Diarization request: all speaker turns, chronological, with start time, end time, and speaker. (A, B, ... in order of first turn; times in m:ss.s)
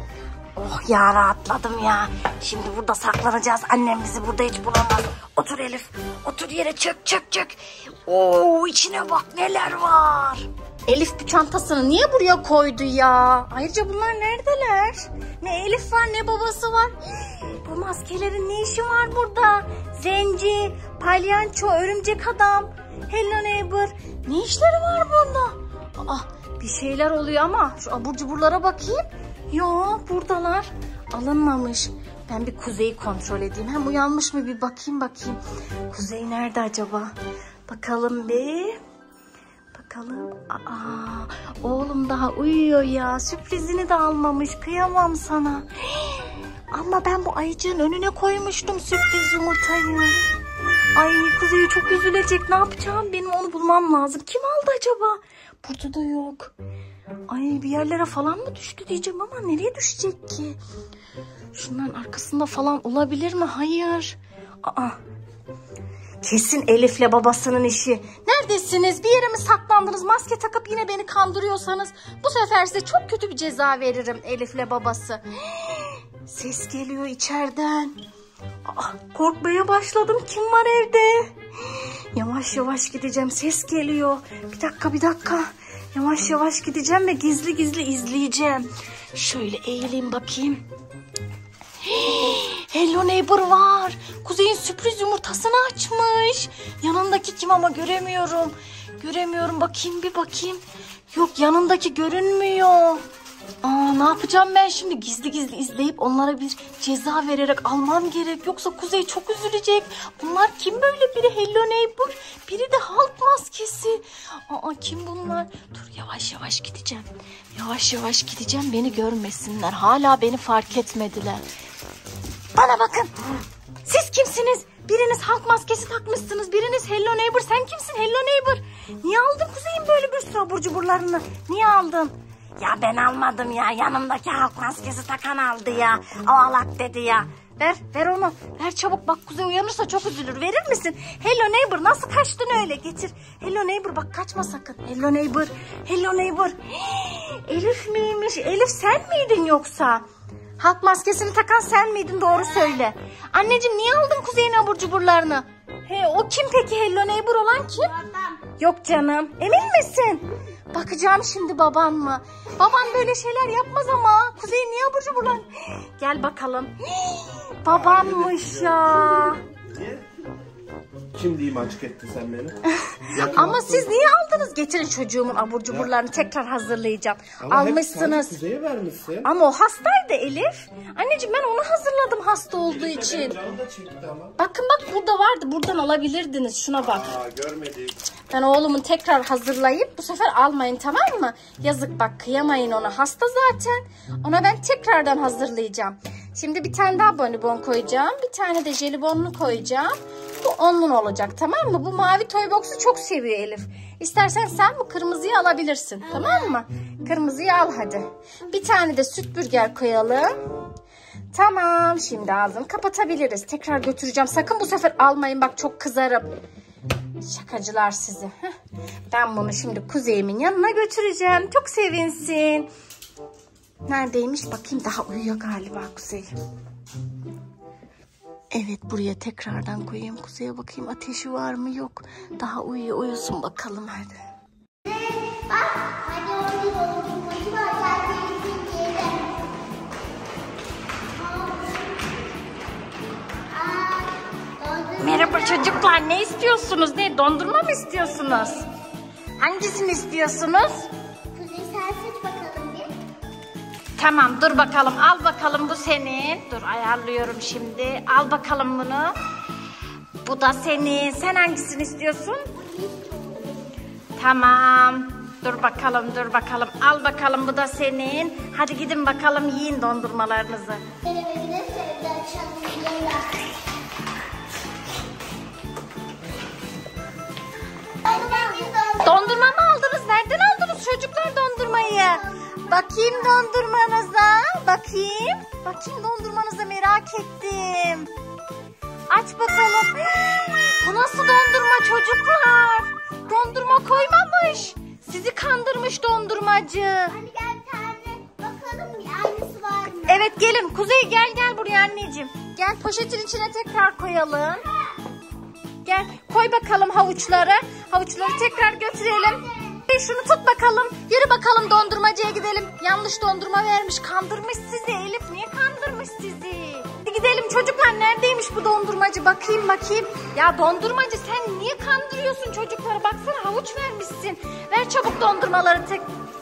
0:00.6-0:37.1 A
0:37.7-0:38.8 A
0:39.7-0:50.2 A
0:50.9-0:56.5 A
0:57.3-1:00.6 A
1:01.5-1:05.0 A
1:06.2-1:18.0 A
1:18.6-1:30.6 A
1:31.8-1:43.0 A
1:43.6-2:01.4 A
2:02.5-2:03.1 A
2:03.8-2:30.0 A
2:30.6-2:37.9 A
2:38.0-2:38.2 B
2:38.6-2:49.4 A
2:47.6-2:50.0 C
2:51.1-2:52.6 C
2:52.8-2:58.4 A
2:53.1-2:53.9 C
2:57.4-2:59.3 C
2:59.2-3:03.4 A
3:02.6-3:04.4 C
3:04.4-3:07.1 A
3:06.9-3:08.0 C
3:08.3-3:30.4 A
3:31.3-3:36.3 A
3:37.2-3:38.5 A
3:39.1-3:42.7 A
3:43.8-3:46.3 A
3:48.5-3:54.2 A
3:54.8-3:59.4 B
4:01.2-4:02.1 B
4:03.5-4:05.7 B
4:05.0-4:08.7 A
4:09.4-4:10.9 A
4:11.3-4:12.9 B
4:14.0-4:19.1 A
4:20.2-4:22.4 A
4:22.6-4:23.7 B
4:24.2-4:30.8 A
4:31.0-4:33.4 B
4:38.0-4:39.2 B
4:39.0-4:48.1 A
4:49.1-4:57.1 A
4:57.1-5:00.3 B
5:00.0-5:04.6 A
5:05.8-5:26.0 A